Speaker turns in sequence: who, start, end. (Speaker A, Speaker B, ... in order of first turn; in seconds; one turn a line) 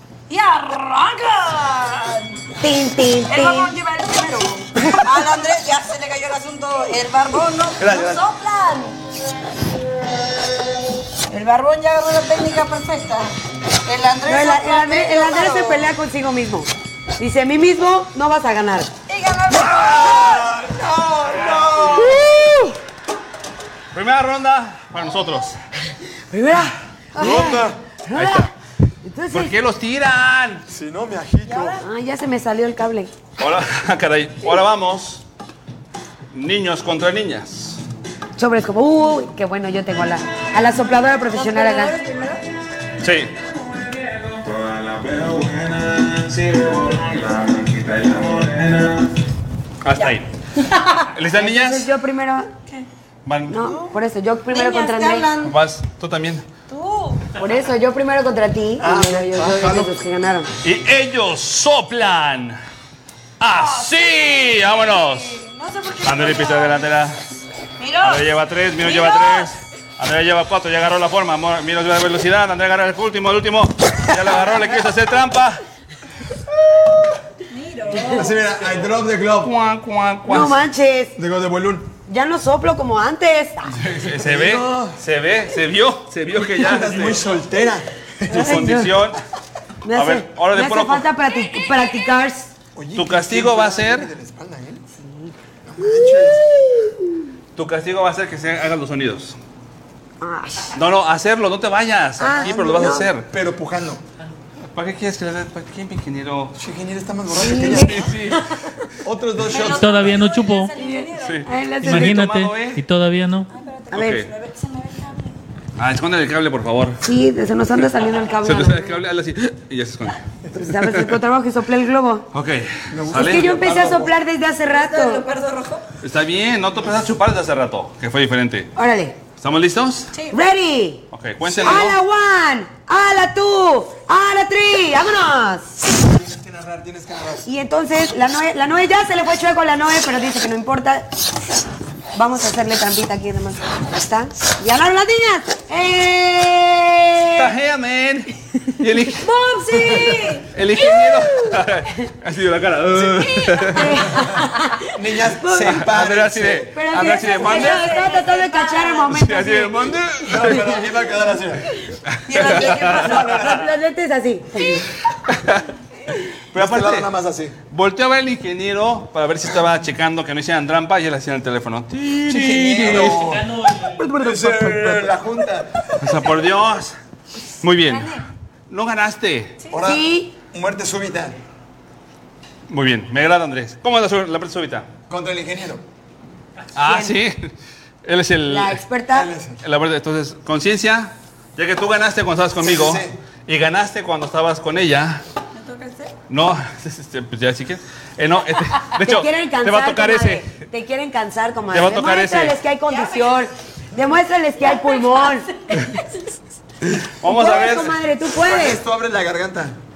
Speaker A: 0.3-2.4
Speaker B: 2.6-3.7
Speaker A: 3.3-9.0
Speaker C: 7.8-8.2
Speaker A: 11.3-13.3
Speaker A: 13.9-15.9
Speaker B: 14.3-18.9
Speaker A: 19.1-20.6
Speaker D: 19.8-20.4
Speaker C: 20.1-22.2
Speaker B: 21.9-22.8
Speaker D: 23.9-25.6
Speaker B: 26.3-28.5
Speaker C: 27.2-27.8
Speaker A: 27.2-27.5
Speaker D: 28.1-28.5
Speaker B: 29.1-29.5
Speaker D: 29.3-30.6
Speaker C: 30.7-31.8
Speaker A: 31.4-31.8
Speaker B: 31.8-33.1
Speaker D: 33.4-35.2
Speaker D: 36.3-37.8
Speaker B: 38.4-42.0
Speaker A: 41.3-42.4
Speaker D: 43.0-43.3
Speaker D: 44.5-49.0
Speaker D: 49.8-50.3
Speaker A: 50.0-51.1
Speaker D: 51.1-51.9
Speaker B: 51.4-52.5
Speaker D: 53.2-53.7
Speaker B: 53.5-55.3
Speaker A: 54.5-55.6
Speaker D: 55.4-56.5
Speaker A: 56.7-57.2
Speaker B: 57.4-60.5
Speaker C: 58.8-59.9
Speaker D: 60.6-62.6
Speaker D: 63.4-65.4
Speaker A: 63.5-66.8
Speaker D: 66.0-67.2
Speaker A: 67.8-69.5
Speaker D: 68.0-75.6
Speaker A: 77.5-78.4
Speaker C: 78.1-79.5
Speaker D: 79.4-80.6
Speaker B: 80.3-81.2
Speaker C: 81.2-81.9
Speaker B: 82.1-83.8
Speaker D: 83.8-87.2
Speaker C: 84.1-84.9
Speaker C: 86.5-87.9
Speaker B: 88.3-89.1
Speaker D: 88.3-89.2
Speaker B: 89.8-92.5
Speaker D: 90.0-91.1
Speaker C: 92.8-94.8
Speaker D: 93.0-94.1
Speaker B: 95.0-97.1
Speaker C: 95.7-96.5
Speaker D: 97.5-99.4
Speaker B: 100.2-100.8
Speaker D: 100.8-103.3
Speaker B: 102.2-103.1
Speaker C: 102.4-104.0
Speaker D: 104.7-106.5
Speaker C: 106.6-108.2
Speaker B: 107.4-108.5
Speaker D: 107.5-108.5
Speaker C: 109.0-110.2
Speaker A: 109.5-111.5
Speaker E: 109.6-110.8
Speaker B: 110.8-112.2
Speaker D: 111.2-112.8
Speaker E: 111.8-113.5
Speaker A: 113.5-115.4
Speaker D: 113.9-114.3
Speaker B: 113.9-114.2
Speaker D: 115.8-117.0
Speaker B: 117.0-119.0
Speaker D: 118.4-121.2
Speaker B: 120.5-122.3
Speaker D: 122.3-123.5
Speaker C: 122.9-124.1
Speaker B: 123.1-125.2
Speaker A: 124.7-125.8
Speaker D: 126.0-128.7
Speaker B: 128.8-129.2
Speaker D: 129.4-130.1
Speaker A: 130.1-130.4
Speaker B: 130.3-131.0
Speaker D: 131.1-132.0
Speaker C: 131.4-131.9
Speaker B: 131.6-135.7
Speaker C: 136.0-137.4
Speaker B: 137.4-141.1
Speaker B: 142.2-147.5
Speaker D: 147.3-149.3
Speaker A: 149.2-151.1
Speaker D: 149.8-154.1
Speaker C: 152.9-153.2
Speaker A: 153.3-154.0
Speaker B: 153.7-155.9
Speaker C: 154.9-156.8
Speaker D: 155.8-158.0
Speaker B: 156.7-160.8
Speaker A: 157.2-159.2
Speaker D: 159.1-160.8
Speaker C: 160.2-161.7
Speaker D: 162.1-163.5
Speaker A: 162.3-163.4
Speaker B: 162.8-164.9
Speaker D: 165.3-165.7
Speaker D: 166.5-167.1
Speaker C: 166.5-167.5
Speaker D: 167.7-173.4
Speaker C: 172.2-176.1
Speaker E: 172.9-174.2
Speaker D: 176.0-177.0
Speaker D: 177.6-179.6
Speaker A: 177.8-178.2
Speaker C: 179.7-181.4
Speaker B: 179.7-180.3
Speaker D: 182.7-184.9
Speaker C: 185.1-185.8
Speaker D: 186.8-187.5
Speaker B: 186.8-187.2
Speaker D: 188.1-188.8
Speaker B: 188.4-189.3
Speaker C: 189.1-189.6
Speaker D: 189.6-195.2
Speaker C: 192.6-193.2
Speaker A: 195.6-196.2
Speaker D: 196.3-200.5
Speaker B: 199.0-205.5
Speaker D: 201.7-202.6
Speaker A: 202.8-203.4
Speaker A: 204.6-206.2
Speaker D: 207.1-208.0
Speaker B: 207.2-208.8
Speaker C: 208.3-209.8